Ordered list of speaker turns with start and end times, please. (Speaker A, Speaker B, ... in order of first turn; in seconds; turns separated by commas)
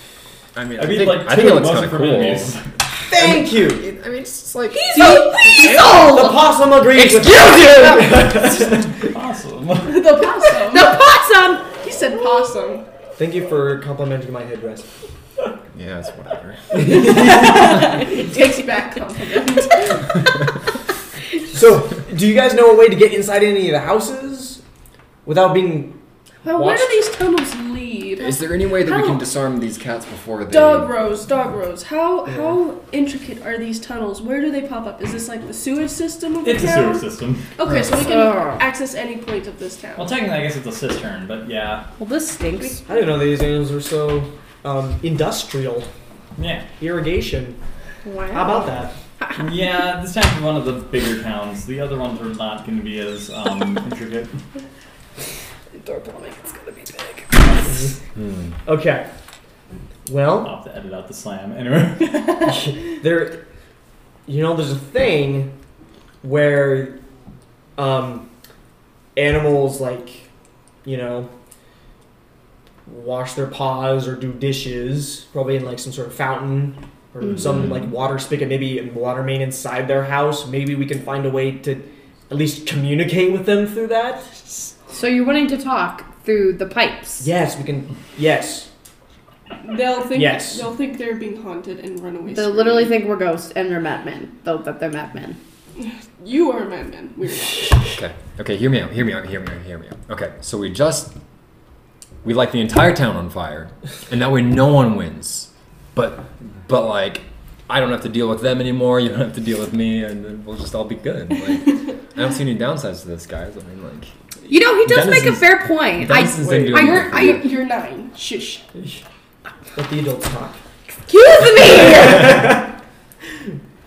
Speaker A: 0.6-2.6, Speaker B: 0.8-2.6, Speaker C: 3.1-3.9, Speaker A: 3.1-5.0, Speaker D: 4.7-6.5, Speaker E: 4.9-5.8, Speaker C: 6.0-9.1, Speaker A: 6.9-8.4, Speaker B: 8.4-10.1, Speaker E: 9.9-11.0, Speaker D: 10.6-11.8, Speaker E: 11.8-12.8, Speaker C: 13.2-14.9, Speaker A: 15.7-16.9, Speaker C: 16.7-17.8, Speaker E: 16.8-20.3, Speaker C: 21.5-24.6, Speaker C: 25.2-25.9, Speaker E: 26.4-29.2, Speaker C: 26.6-26.9, Speaker A: 28.2-30.9, Speaker E: 30.5-37.0, Speaker B: 36.4-37.5, Speaker E: 37.6-40.1, Speaker A: 37.6-38.1, Speaker D: 37.9-38.6, Speaker B: 40.0-41.9, Speaker D: 42.0-42.8, Speaker C: 42.9-45.9, Speaker B: 46.4-46.7, Speaker C: 46.8-47.6, Speaker D: 48.0-48.7, Speaker C: 48.3-48.9, Speaker B: 49.4-54.4, Speaker D: 55.8-57.4, Speaker C: 57.6-58.0, Speaker A: 58.2-58.5, Speaker C: 58.6-59.0, Speaker C: 60.1-60.5, Speaker B: 60.4-62.6, Speaker C: 62.4-63.4, Speaker C: 64.3-65.5, Speaker C: 66.2-67.0, Speaker C: 67.8-68.3, Speaker C: 69.2-70.3, Speaker C: 70.8-71.3, Speaker C: 72.9-84.3, Speaker D: 84.9-87.3, Speaker C: 87.2-88.7, Speaker E: 89.6-93.0, Speaker C: 90.1-90.7, Speaker D: 92.3-95.4, Speaker E: 95.8-97.9, Speaker A: 98.0-101.1, Speaker A: 102.2-114.1, Speaker D: 114.5-117.4, Speaker C: 114.9-115.3, Speaker A: 114.9-117.5, Speaker C: 116.4-117.2, Speaker E: 116.7-118.6, Speaker C: 119.8-120.6, Speaker D: 121.1-122.5, Speaker C: 121.7-122.6